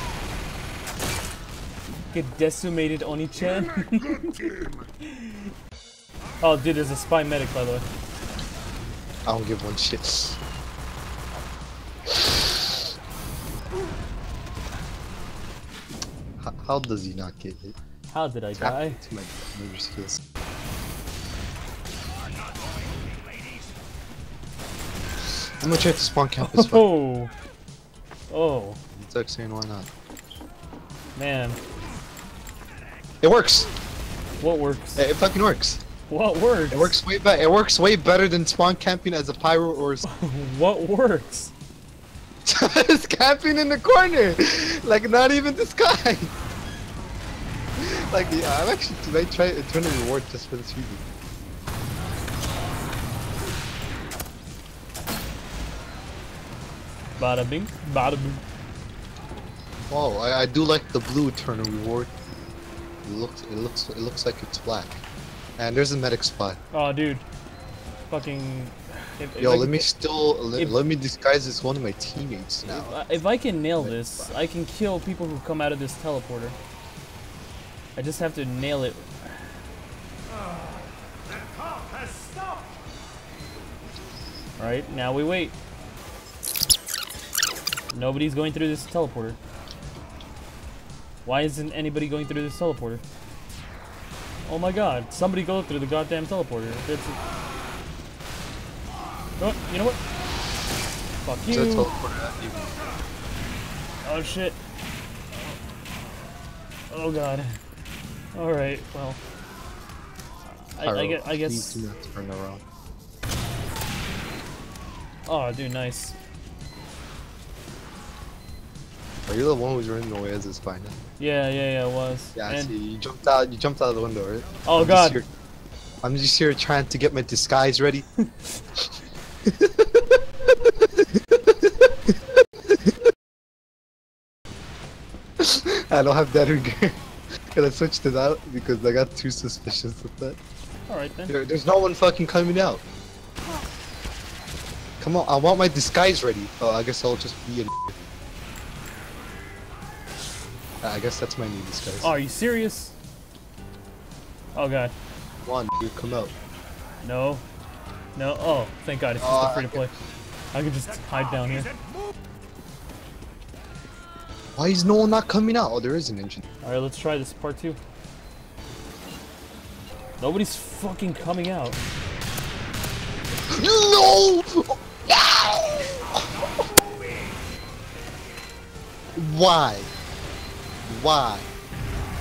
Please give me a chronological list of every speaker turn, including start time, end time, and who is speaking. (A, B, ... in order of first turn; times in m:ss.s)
0:02.1-0:04.5 A
0:05.0-0:05.3 A
0:06.4-0:07.8 A
0:09.3-0:10.4 B
0:16.4-0:17.8 B
0:18.1-0:19.0 A
0:18.6-0:20.2 B
0:25.3-0:26.8 B
0:26.4-0:27.3 A
0:28.3-0:28.8 A
0:29.0-0:29.9 B
0:31.2-0:31.6 A
0:33.2-0:33.7 B
0:34.4-0:35.0 A
0:35.0-0:35.8 B
0:36.1-0:37.0 A
0:36.7-0:40.0 B
0:40.0-0:41.5 A
0:42.4-0:46.3 B
0:47.8-0:51.0 B
0:57.2-0:58.4 A
0:59.9-1:02.1 B
1:03.0-1:05.0 B
1:05.6-1:06.6 B
1:06.7-1:07.2 A
1:08.1-1:09.8 A
1:09.4-1:13.2 B
1:12.6-1:16.6 A
1:13.8-1:14.3 B
1:18.0-1:19.4 A
1:24.6-1:25.6 A
1:27.9-1:29.4 A
1:31.2-1:33.0 A
1:34.5-1:37.2 A
1:39.4-1:40.0 A
1:41.2-1:41.9 A
1:41.5-1:42.8 B
1:44.0-1:44.6 A
1:46.9-1:47.6 A
1:48.3-1:49.2 A
1:50.6-1:51.9 A
1:50.8-1:52.6 B
1:55.2-1:56.1 A
1:59.3-2:01.0 B
2:01.2-2:02.7 A
2:02.4-2:05.3 B
2:04.6-2:05.2 A
2:06.0-2:08.1 B
2:09.4-2:11.6 B
2:15.4-2:17.0 B
2:17.5-2:20.4 B
2:20.9-2:21.3 A
2:21.3-2:22.8 B
2:25.0-2:28.0 B
2:30.8-2:32.1 B
2:32.0-2:32.9 A
2:34.5-2:34.9 A
2:35.4-2:36.3 B
2:37.0-2:37.4 A
2:38.2-2:39.9 A
2:39.2-2:39.9 B
2:40.5-2:41.7 A
2:44.6-2:46.4 B
2:46.6-2:47.8 A
2:50.2-2:51.8 A
2:53.5-2:56.2 B
2:59.2-2:59.9 B
3:00.9-3:01.5 B